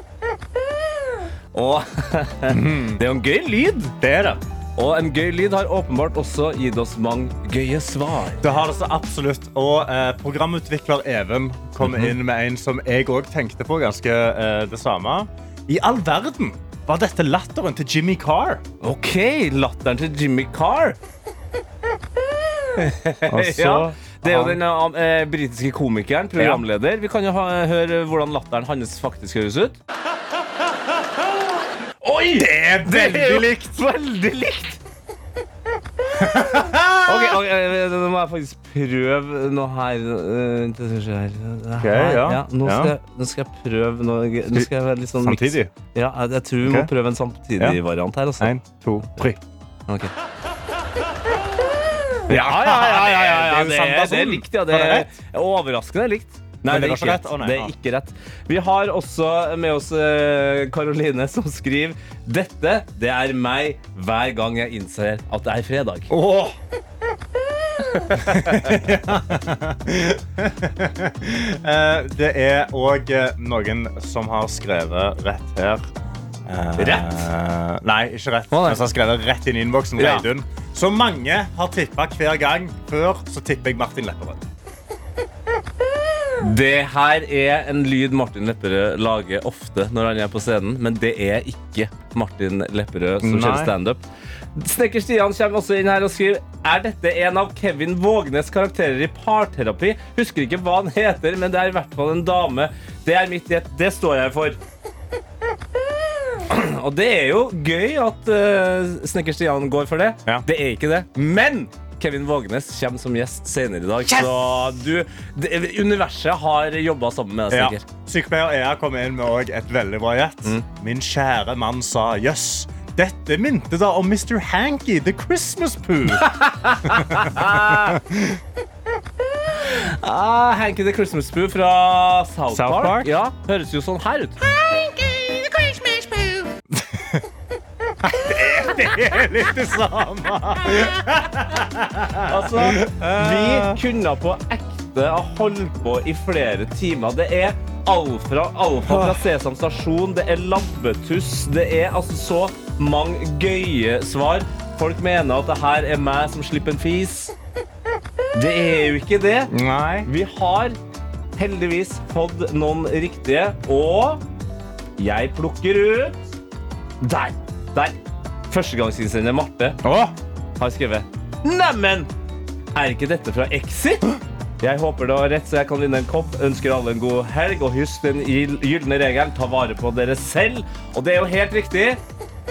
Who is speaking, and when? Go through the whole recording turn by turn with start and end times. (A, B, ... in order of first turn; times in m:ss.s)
0:01.5-0:04.0 A
0:02.5-0:03.0 B
0:04.0-0:04.4 B
0:04.8-0:08.4 A
0:08.4-0:18.6 B
0:11.8-0:12.2 A
0:18.8-0:21.0 A
0:22.8-0:29.8 A
0:23.3-0:24.6 B
0:26.4-0:26.6 B
0:32.0-0:34.8 A
0:32.4-0:33.6 B
0:36.1-0:37.4 B
0:37.0-0:48.5 A
0:41.8-0:42.9 B
0:45.2-0:45.7 B
0:46.6-0:46.9 B
0:48.4-0:49.4 B
0:52.3-1:06.1 A
0:52.3-0:55.1 B
0:56.6-0:57.7 B
1:06.1-1:06.5 B
1:08.1-1:15.9 B
1:16.4-1:24.4 B
1:16.8-1:17.2 A
1:18.5-1:18.8 A
1:20.0-1:20.2 A
1:26.4-1:34.0 A
1:33.2-1:33.7 B
1:34.5-1:44.6 A
1:46.5-1:57.8 A
1:57.5-2:06.3 B
2:06.2-2:08.0 A
2:06.8-2:08.4 B
2:09.6-2:14.4 A
2:12.5-2:13.1 B
2:16.7-2:17.2 B
2:18.0-2:23.8 B
2:22.3-2:37.3 A
2:28.8-2:29.2 B
2:38.3-2:39.5 A
2:39.5-2:40.1 B
2:40.0-2:40.8 A
2:41.4-2:44.2 A
2:45.0-2:46.2 A
2:47.0-2:47.9 A
2:48.5-2:49.8 A
2:49.8-2:50.1 B
2:50.6-2:52.1 A
2:52.7-2:54.1 A
2:54.6-3:02.0 A